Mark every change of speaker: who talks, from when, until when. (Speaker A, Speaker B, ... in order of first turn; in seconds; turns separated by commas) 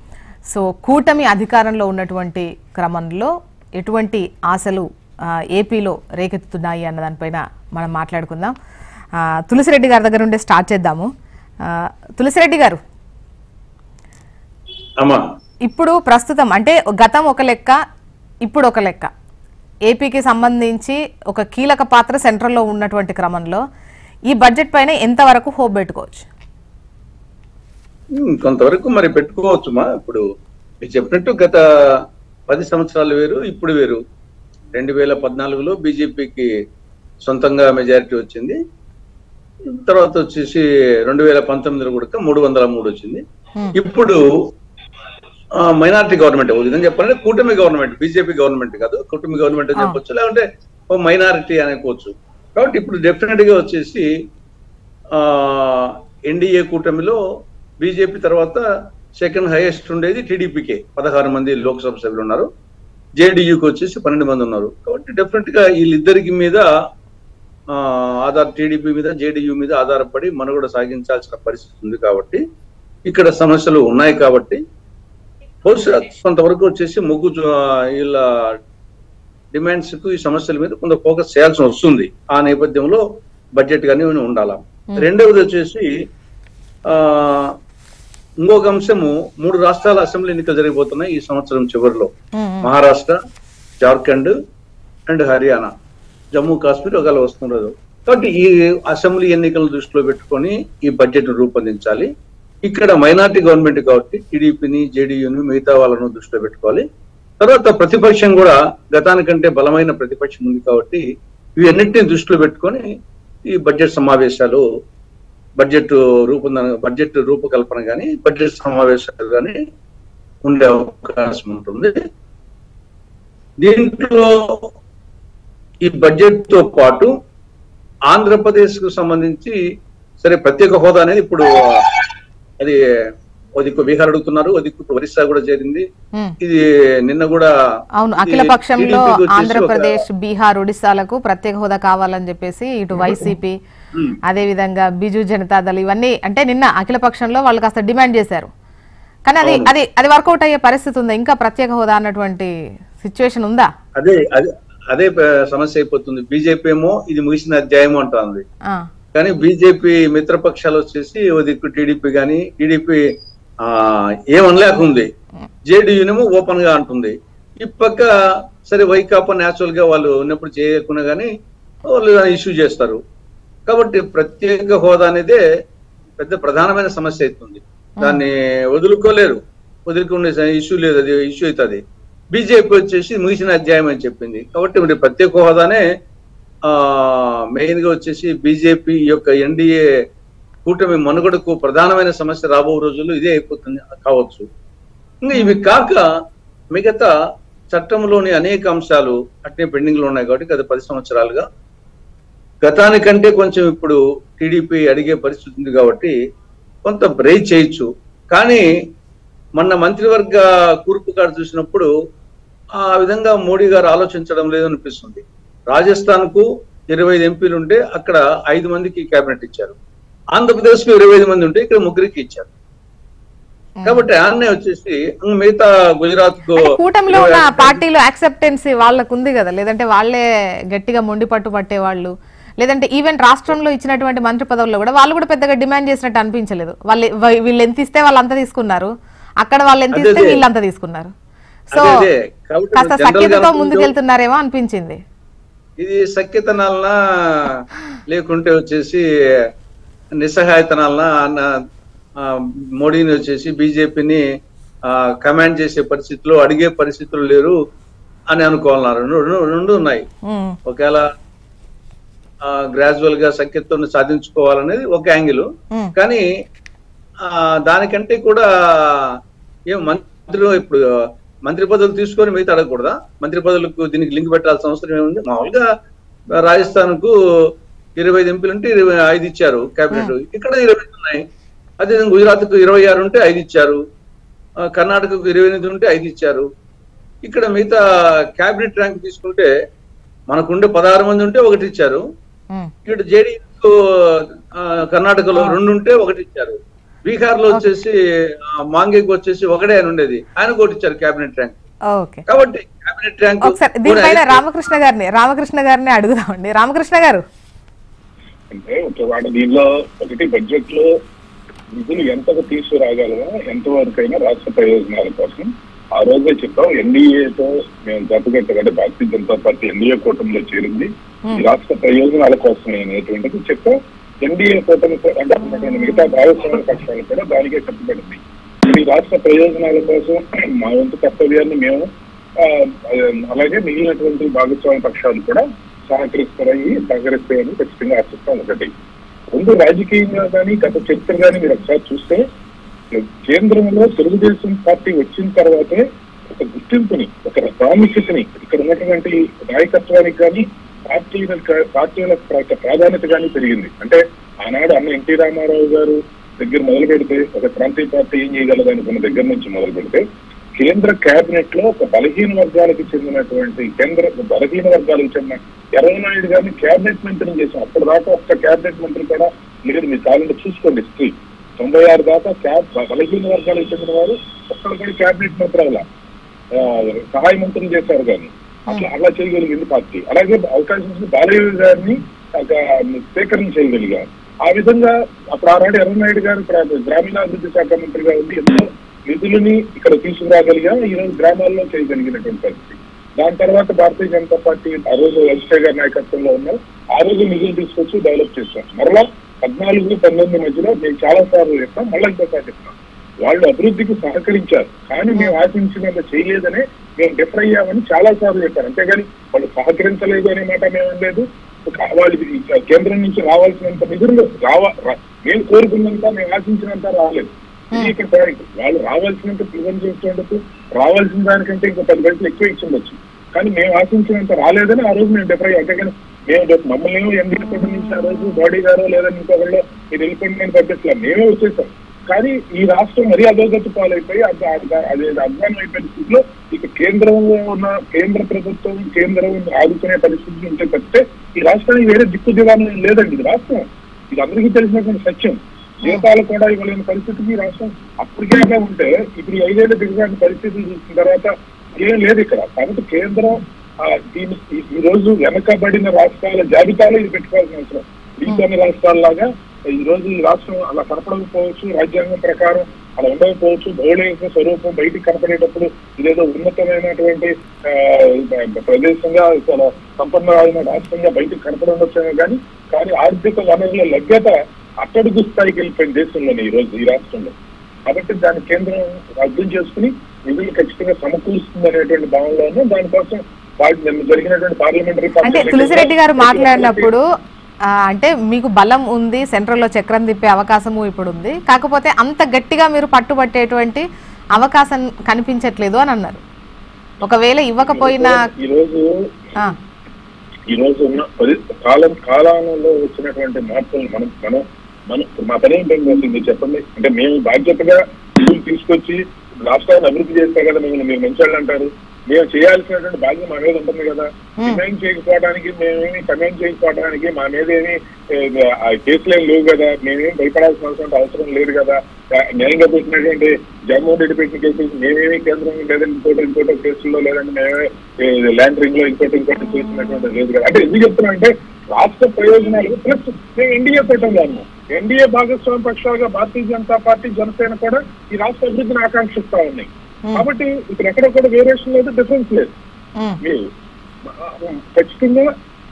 Speaker A: 0.5-4.9, Speaker A: 5.5-8.5, Speaker A: 9.5-11.1, Speaker A: 12.2-12.8, Speaker A: 15.7-17.7, Speaker A: 18.4-19.1, Speaker A: 19.9-23.6, Speaker A: 24.3-26.2, Speaker B: 28.2-30.2, Speaker B: 30.8-31.6, Speaker B: 32.5-34.0, Speaker B: 34.7-36.5, Speaker B: 37.2-38.6, Speaker B: 39.8-43.2, Speaker B: 43.8-44.2, Speaker B: 45.6-54.0, Speaker B: 55.1-57.2, Speaker B: 57.8-58.6, Speaker B: 59.2-62.5, Speaker B: 63.2-66.7, Speaker B: 67.7-72.4, Speaker B: 73.1-74.6, Speaker B: 75.6-78.3, Speaker B: 79.5-83.0, Speaker B: 83.6-85.9, Speaker B: 86.9-87.5, Speaker B: 88.4-92.1, Speaker A: 92.3-92.7, Speaker B: 92.6-93.2, Speaker B: 93.8-94.3, Speaker B: 95.1-95.7, Speaker B: 96.3-102.1, Speaker B: 102.6-106.8, Speaker B: 107.4-111.0, Speaker B: 111.6-112.8, Speaker B: 113.5-114.6, Speaker B: 115.6-119.6, Speaker B: 120.4-122.0, Speaker B: 123.6-124.6, Speaker B: 125.8-127.1, Speaker B: 128.1-129.6, Speaker B: 130.2-132.0, Speaker B: 133.6-135.8, Speaker B: 136.4-137.5, Speaker A: 138.0-143.5, Speaker B: 138.2-140.0, Speaker B: 143.0-143.3, Speaker A: 144.2-148.5, Speaker A: 149.2-153.7, Speaker B: 149.4-149.7, Speaker B: 154.0-158.4, Speaker B: 159.1-163.0, Speaker B: 163.6-165.1, Speaker B: 165.7-168.1, Speaker B: 168.7-171.3, Speaker B: 171.9-173.0, Speaker B: 173.7-175.4, Speaker B: 176.2-181.8, Speaker B: 182.3-185.8, Speaker B: 186.7-189.8, Speaker B: 190.7-194.4, Speaker B: 195.2-196.0, Speaker A: 195.3-195.6, Speaker B: 196.7-197.1, Speaker B: 197.7-201.4, Speaker B: 202.6-206.1, Speaker B: 206.8-208.6, Speaker B: 209.6-211.9, Speaker B: 212.8-219.8, Speaker B: 220.3-222.5, Speaker A: 223.8-224.0, Speaker B: 223.8-227.8, Speaker A: 226.6-238.9, Speaker A: 239.4-241.1, Speaker B: 239.9-240.4, Speaker B: 241.7-243.9, Speaker A: 242.7-245.0, Speaker B: 245.8-246.9, Speaker B: 248.1-249.0, Speaker B: 250.2-251.5, Speaker B: 252.2-254.2, Speaker B: 254.9-257.6, Speaker B: 258.3-260.0, Speaker A: 260.3-260.6, Speaker B: 260.7-261.1, Speaker B: 262.5-266.2, Speaker B: 267.2-268.9, Speaker B: 269.7-270.8, Speaker B: 271.4-275.6, Speaker B: 276.4-277.1, Speaker B: 278.0-281.2, Speaker B: 281.8-283.8, Speaker B: 284.7-286.4, Speaker B: 287.2-287.8, Speaker B: 288.4-289.5, Speaker B: 290.3-292.0, Speaker B: 292.9-294.2, Speaker B: 294.9-297.9, Speaker B: 298.5-301.6, Speaker A: 301.9-302.2, Speaker B: 302.3-304.4, Speaker A: 303.4-307.2, Speaker C: 308.5-310.9, Speaker C: 311.7-331.9, Speaker C: 332.4-338.7, Speaker C: 339.3-342.2, Speaker C: 342.9-360.0, Speaker C: 360.6-375.8, Speaker C: 376.6-477.3, Speaker C: 477.9-486.9, Speaker A: 485.2-487.0, Speaker A: 487.9-493.8, Speaker A: 494.3-496.2, Speaker A: 497.0-498.2, Speaker C: 497.6-499.3, Speaker C: 500.5-542.5, Speaker C: 544.2-545.3